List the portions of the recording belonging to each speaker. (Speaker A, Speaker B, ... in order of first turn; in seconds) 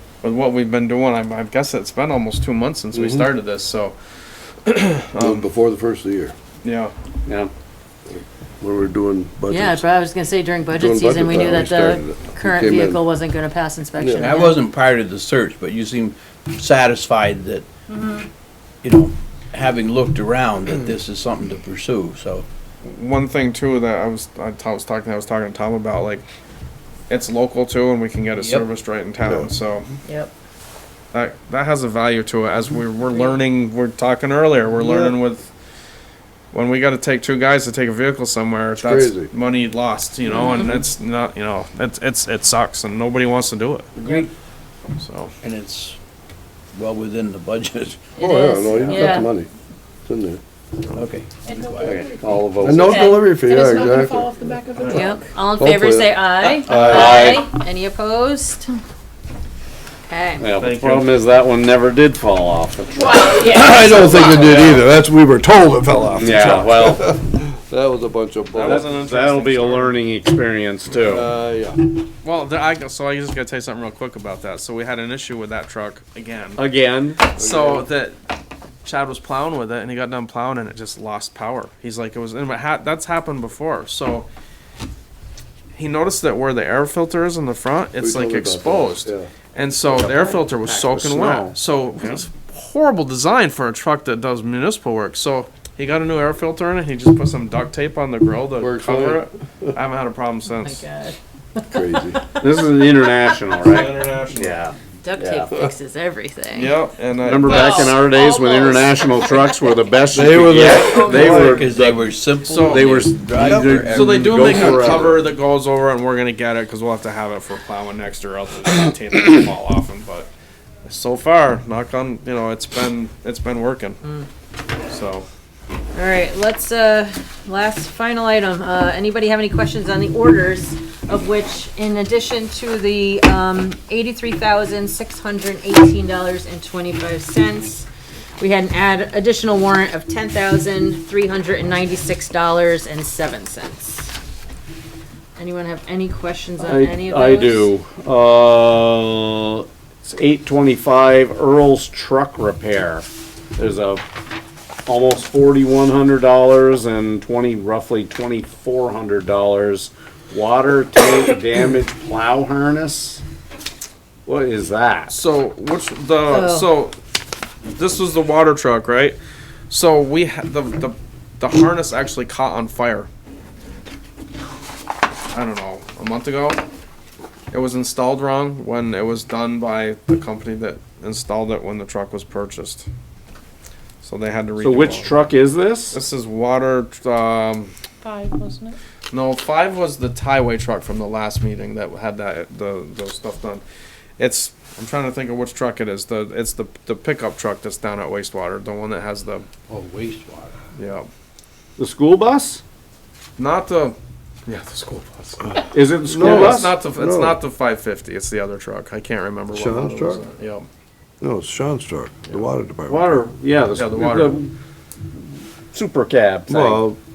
Speaker A: 0.2-4.0, 4.7-5.5, 6.6-6.9, 22.8-26.2, 27.1-29.9, 31.1-35.5, 36.5-43.9, 45.0-45.3, 60.5-61.2, 68.5-70.0, 72.2-76.6, 77.2-78.2, 78.8-84.3, 85.7-100.8, 103.6-104.6, 106.5-108.0, 111.7-113.0, 113.9-120.3, 120.8-124.0, 124.9-125.3, 165.1-167.0, 167.8-169.2, 169.7-173.1, 175.3-176.6, 177.5-182.9, 184.0-185.4, 185.9-187.7, 189.1-193.6, 194.2-199.5, 200.8-201.1, 203.4-205.6, 206.1-210.7, 213.8-214.4
Speaker B: 2.9-3.3, 5.2-6.3, 8.1-9.8, 10.8-13.1, 14.0-14.3, 29.2-29.5, 34.9-35.1, 38.8-39.3, 48.2-49.5, 50.1-50.4, 52.6-54.6, 55.6-57.4, 63.2-68.9, 71.0-71.8, 77.4-77.9, 88.0-89.3, 98.6-99.2, 101.7-102.2, 110.1-111.6, 113.4-113.8, 205.4-207.4, 209.5-210.2, 211.2-213.1, 216.5-217.0
Speaker C: 7.3-7.5, 51.8-53.1, 56.7-57.5, 60.4-63.3, 66.1-67.1, 68.6-71.3, 76.6-77.2, 89.9-91.6, 102.4-105.5, 107.2-111.9, 112.7-115.3, 146.6-154.1, 154.9-163.2, 164.3-165.1, 184.6-186.0, 201.8-202.6, 205.7-206.8, 212.9-214.5, 215.7-216.8
Speaker D: 9.5-14.6, 17.9-18.3, 30.1-30.3, 40.4-40.6, 48.2-49.3, 52.8-53.4, 54.9-58.7, 60.1-60.4, 63.0-64.6, 100.6-102.4, 105.0-106.8, 107.5-109.8, 125.9-137.9, 138.4-144.1, 145.4-147.7, 166.3-166.7
Speaker E: 14.2-17.7, 18.8-22.4, 28.4-28.6, 44.0-44.3, 45.4-46.0, 46.7-48.1, 48.7-49.2, 50.9-52.0, 111.0-115.0, 199.7-200.5
Speaker F: 51.5-52.7, 53.4-55.2, 188.1-188.7